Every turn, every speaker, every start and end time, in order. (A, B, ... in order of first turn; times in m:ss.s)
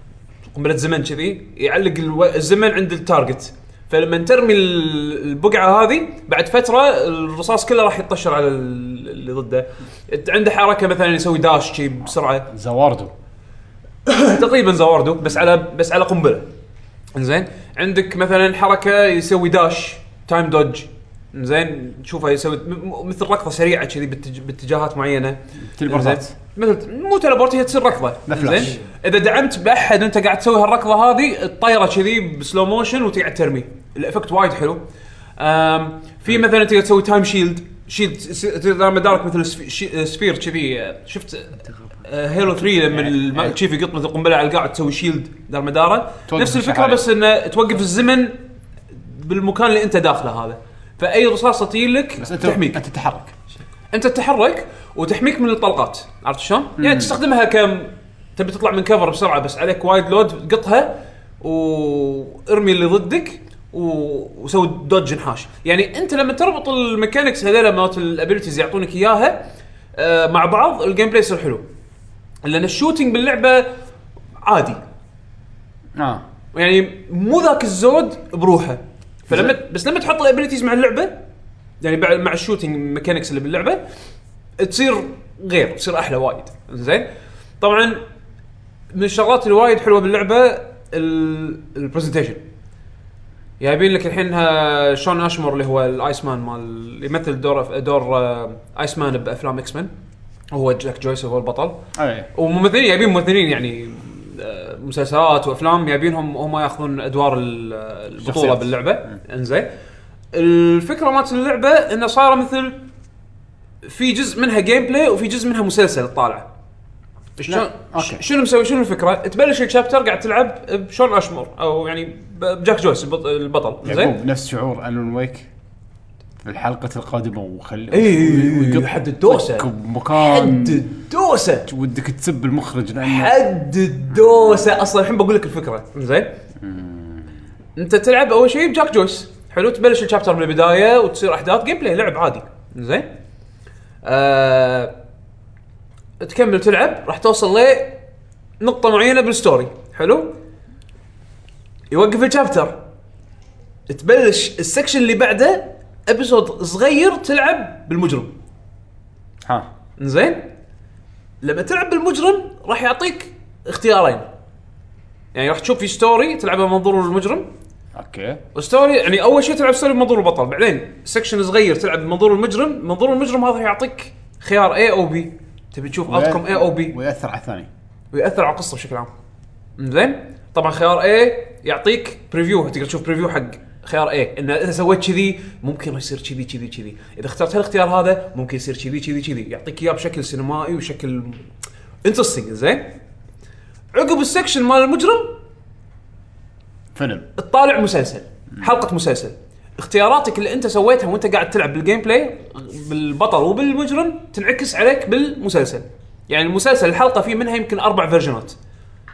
0:00.5-0:12.5 A
0:12.5-0:13.1 B
0:14.0-0:16.5 A
0:17.1-0:34.8 A
0:25.6-0:26.3 B
0:28.3-0:28.8 B
0:35.4-0:48.4 A
0:42.9-0:43.5 B
0:46.3-0:47.0 B
0:48.9-0:52.8 A
0:52.2-0:53.3 B
0:53.9-1:09.4 A
0:56.8-0:57.2 B
1:10.0-1:11.6 A
1:12.4-1:13.7 A
1:14.4-1:14.8 A
1:16.0-1:16.2 B
1:16.5-1:21.2 A
1:21.8-1:23.8 A
1:24.6-1:27.1 A
1:27.6-1:28.0 A
1:28.9-1:32.4 A
1:33.6-1:39.9 A
1:40.5-1:41.8 A
1:42.0-1:42.3 B
1:42.3-1:49.7 A
1:48.2-1:49.1 B
1:50.3-1:52.8 A
1:53.8-1:56.4 A
1:57.4-2:04.1 A
1:57.5-1:58.2 B
2:03.8-2:05.5 B
2:06.4-2:10.8 B
2:07.9-2:11.7 A
2:11.6-2:13.4 B
2:13.0-2:16.3 A
2:14.1-2:14.6 B
2:16.6-2:17.4 B
2:17.8-2:23.1 A
2:24.0-2:24.9 A
2:26.2-2:28.0 A
2:28.6-2:30.3 A
2:31.9-2:32.8 A
2:33.9-2:38.3 A
2:40.0-2:40.5 A
2:41.4-2:44.2 A
2:45.3-2:47.5 A
2:47.9-2:48.4 B
2:48.5-2:56.9 A
2:56.0-2:57.7 B
2:58.1-2:59.1 A
2:59.8-3:11.4 A
3:12.0-3:12.9 A
3:13.9-3:15.4 A
3:16.9-3:17.3 B
3:17.4-3:28.5 A